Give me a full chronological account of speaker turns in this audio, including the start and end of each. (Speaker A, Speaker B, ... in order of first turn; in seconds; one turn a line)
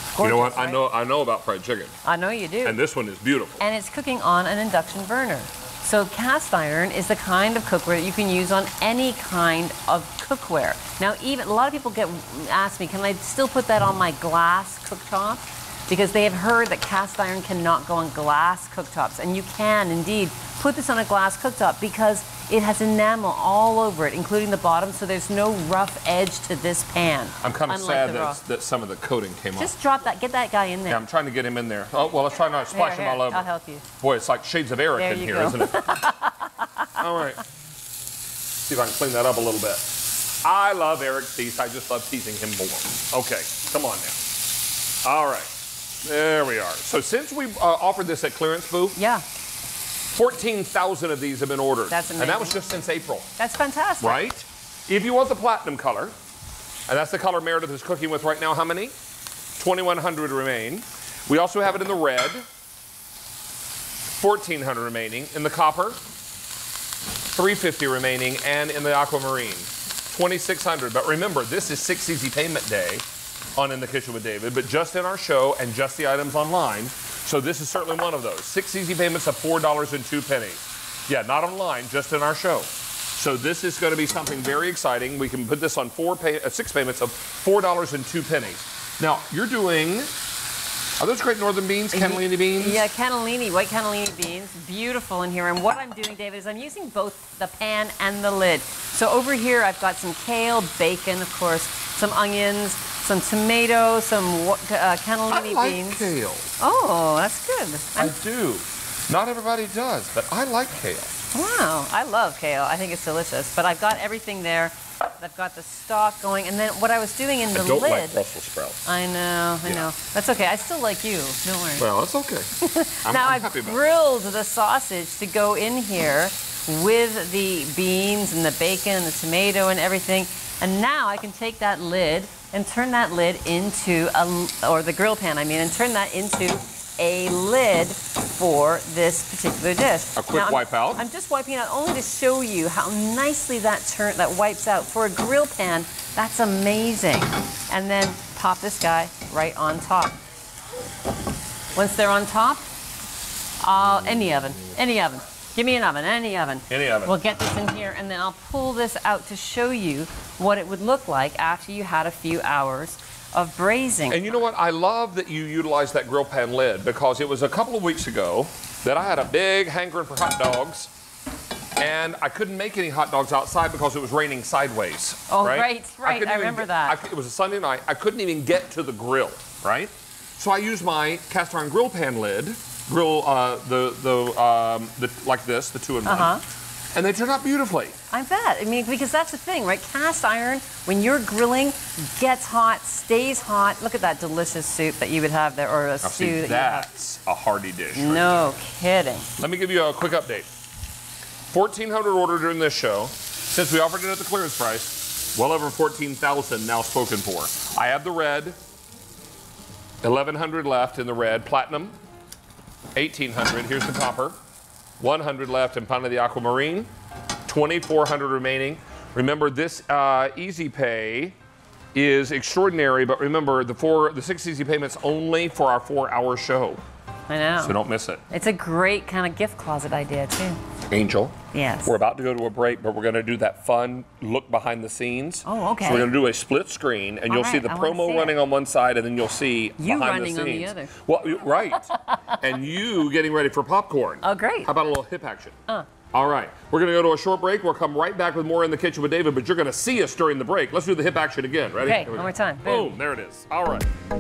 Speaker A: 0.1-0.8
Speaker B: 0.2-1.9
Speaker A: 2.0-2.8
Speaker B: 2.6-3.6
Speaker A: 3.6-28.4
Speaker B: 27.4-29.7
Speaker A: 29.6-31.0
Speaker B: 30.9-33.5
Speaker A: 32.7-33.9
Speaker B: 34.0-36.0
Speaker A: 35.0-37.0
Speaker B: 37.0-37.4
Speaker B: 38.6-44.2
Speaker B: 45.0-45.5
Speaker B: 46.0-49.0
Speaker A: 49.0-49.2
Speaker B: 50.1-53.3
Speaker A: 51.9-52.6
Speaker A: 53.4-54.2
Speaker B: 54.0-56.1
Speaker B: 56.9-58.9
Speaker B: 59.6-62.5
Speaker B: 64.2-66.0
Speaker B: 67.3-73.0
Speaker B: 73.6-90.1
Speaker B: 91.0-92.8
Speaker A: 91.9-108.1
Speaker B: 105.3-106.5
Speaker B: 108.0-111.1
Speaker A: 111.3-118.2
Speaker B: 117.5-118.8
Speaker A: 118.8-121.9
Speaker B: 121.8-123.8
Speaker A: 122.6-150.2
Speaker B: 140.2-141.0
Speaker A: 151.8-152.7
Speaker A: 153.6-164.4
Speaker B: 156.7-157.1
Speaker B: 164.1-170.9
Speaker B: 171.8-186.3
Speaker A: 175.3-177.0
Speaker A: 186.1-186.4
Speaker B: 186.9-187.9
Speaker A: 188.1-196.9
Speaker B: 196.0-198.5
Speaker A: 197.9-199.3
Speaker B: 199.4-200.5
Speaker B: 201.5-208.6
Speaker B: 210.0-211.9
Speaker B: 212.9-214.4
Speaker B: 215.0-216.9
Speaker B: 217.5-221.3
Speaker B: 221.9-226.8
Speaker A: 227.3-227.8
Speaker B: 227.6-228.2
Speaker A: 228.3-230.6
Speaker B: 230.9-245.6
Speaker A: 231.5-232.0
Speaker A: 235.4-236.1
Speaker A: 237.3-238.3
Speaker A: 239.8-241.0
Speaker A: 241.8-242.4
Speaker A: 244.2-244.7
Speaker B: 246.1-253.9
Speaker A: 251.8-252.9